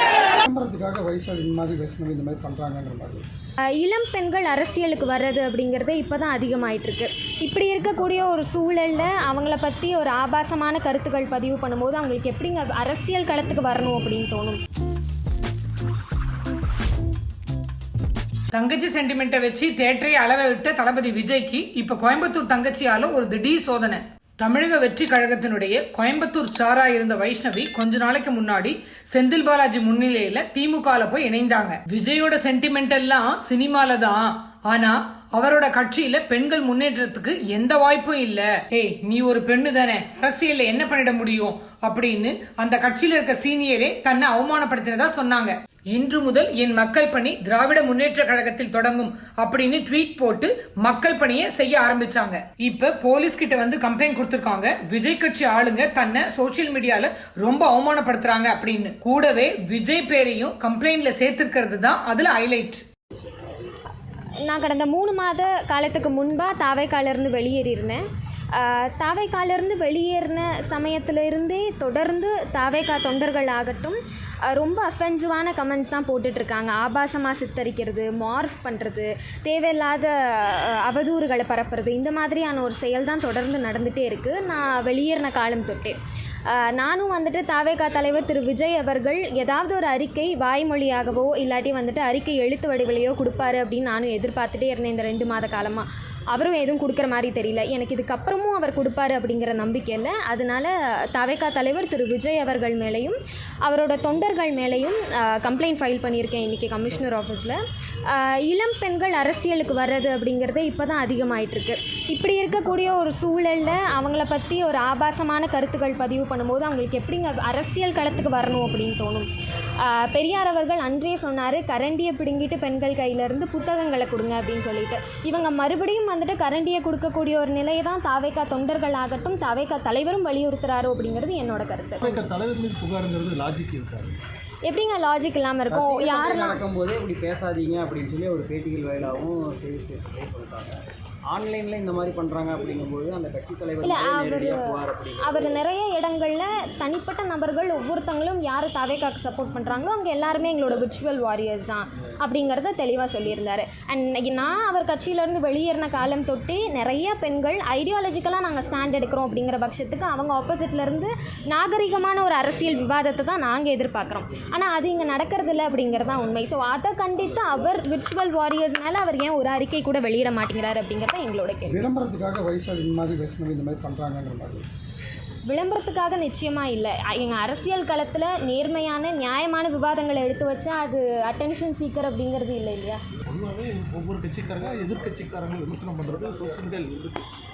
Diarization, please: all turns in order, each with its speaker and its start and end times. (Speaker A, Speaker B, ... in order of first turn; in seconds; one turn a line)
Speaker A: 0.4-3.2
Speaker B: 3.8-14.6
Speaker C: 18.5-62.8
Speaker B: 64.5-86.0
Speaker B: 86.5-119.3
Speaker B: 119.8-132.1
Speaker D: 132.0-134.2
Speaker B: 134.7-136.6
Speaker E: 135.7-145.6
Speaker B: 143.8-144.6
Speaker B: 145.2-171.8
Speaker A: 171.7-174.6
Speaker B: 175.5-183.0
Speaker D: 183.3-187.2